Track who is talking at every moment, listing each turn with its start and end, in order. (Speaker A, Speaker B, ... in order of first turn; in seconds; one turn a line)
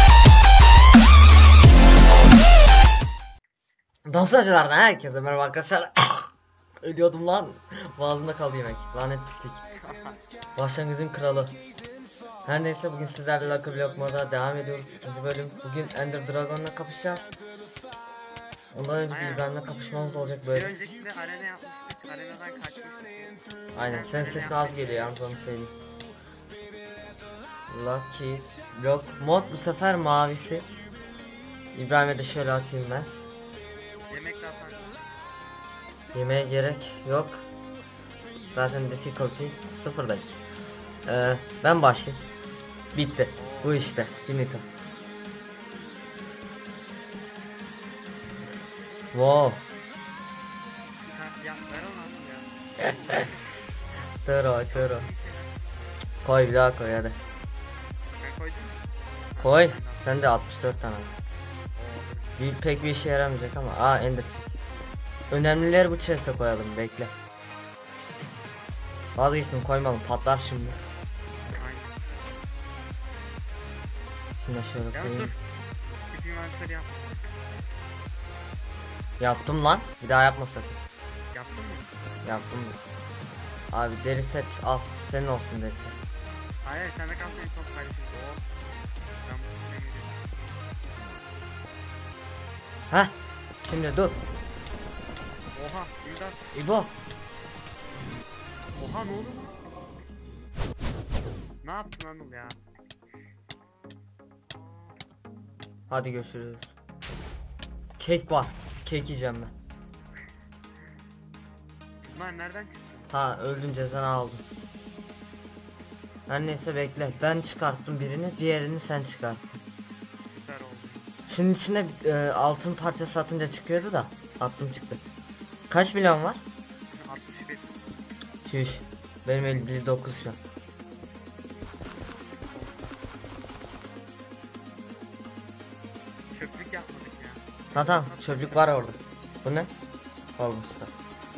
Speaker A: 4.0-9.6
Speaker B: 9.7-10.2
Speaker A: 10.6-11.6
Speaker A: 12.4-17.3
Speaker A: 18.7-20.7
Speaker B: 19.1-19.5
Speaker B: 20.5-25.2
Speaker A: 23.7-25.7
Speaker A: 27.7-30.7
Speaker A: 31.7-33.1
Speaker B: 34.1-35.0
Speaker A: 36.1-37.5
Speaker A: 38.5-40.4
Speaker A: 41.0-42.2
Speaker A: 42.9-44.6
Speaker B: 43.4-44.5
Speaker A: 49.1-49.6
Speaker B: 51.0-53.3
Speaker A: 54.2-55.1
Speaker B: 54.7-55.9
Speaker A: 56.2-57.2
Speaker B: 58.2-60.1
Speaker A: 59.4-61.1
Speaker B: 61.8-62.4
Speaker A: 62.4-64.6
Speaker A: 65.3-67.1
Speaker A: 69.2-70.8
Speaker B: 71.5-72.0
Speaker A: 74.4-75.3
Speaker B: 74.9-75.4
Speaker B: 76.1-77.3
Speaker A: 79.2-80.8
Speaker B: 81.3-81.9
Speaker A: 82.2-82.8
Speaker A: 83.7-86.0
Speaker B: 86.6-88.4
Speaker B: 89.2-90.5
Speaker A: 92.9-94.2
Speaker B: 95.5-96.5
Speaker A: 96.5-96.9
Speaker B: 98.8-99.6
Speaker B: 101.6-102.6
Speaker A: 105.9-106.7
Speaker A: 108.0-109.5
Speaker B: 112.0-113.1
Speaker A: 113.1-114.4
Speaker A: 116.3-119.6
Speaker B: 120.2-121.1
Speaker A: 121.3-125.0
Speaker A: 125.7-126.4
Speaker B: 126.9-128.0
Speaker A: 128.4-130.4
Speaker B: 132.5-133.0
Speaker B: 136.3-138.8
Speaker A: 137.7-139.7
Speaker A: 140.4-140.9